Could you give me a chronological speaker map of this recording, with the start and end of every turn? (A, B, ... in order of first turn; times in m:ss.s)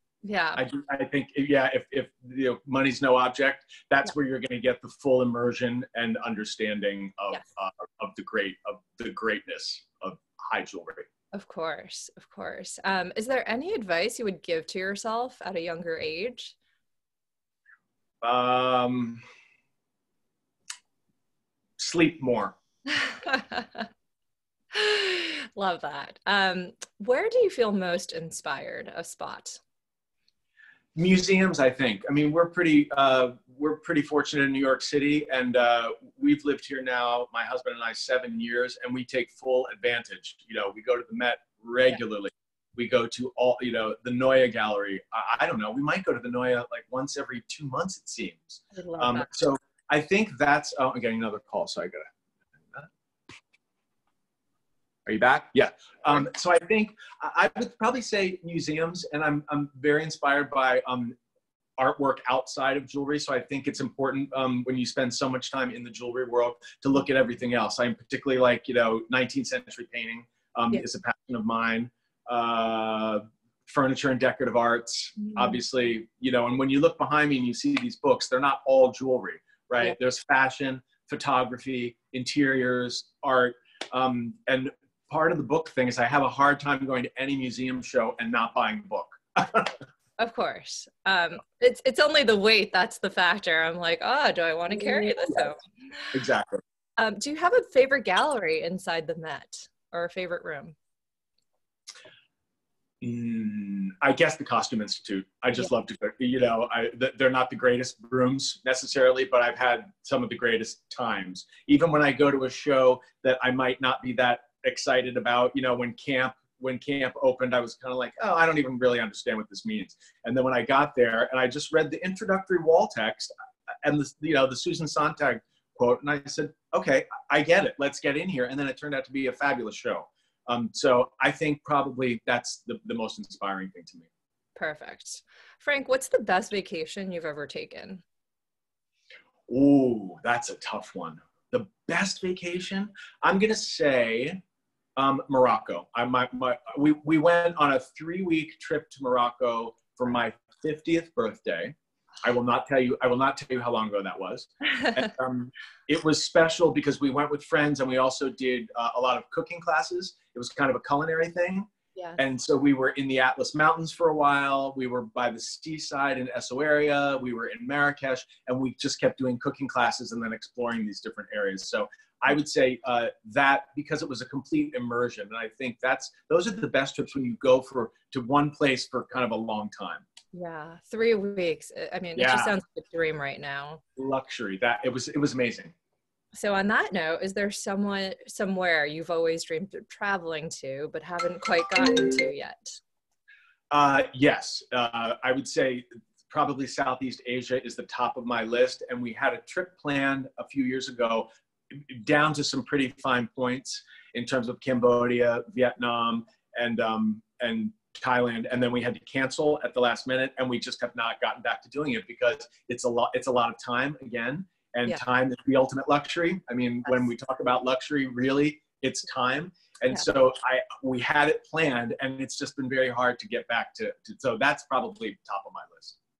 0:00.2-0:00.6 A
0:00.6-0:11.1 B
0:11.3-0:16.5 A
0:18.2-0:19.2 B
0:21.8-0:22.6 B
0:22.9-0:23.9 A
0:24.7-0:29.6 A
0:30.9-0:52.1 B
0:48.7-0:49.3 A
0:55.0-1:01.2 B
1:01.8-1:29.8 B
1:15.2-1:15.6 A
1:30.2-1:36.1 A
1:34.7-1:35.5 B
1:36.1-1:36.6 B
1:37.0-1:40.8 A
1:43.0-2:03.3 B
2:03.8-2:14.1 B
2:14.6-2:18.0 A
2:19.5-2:24.4 B
2:25.0-3:00.0 B
2:42.0-2:42.2 A
3:00.3-3:03.8 A
3:02.2-3:02.5 B
3:04.0-3:05.7 B
3:06.3-3:12.8 A
3:13.7-3:46.0 B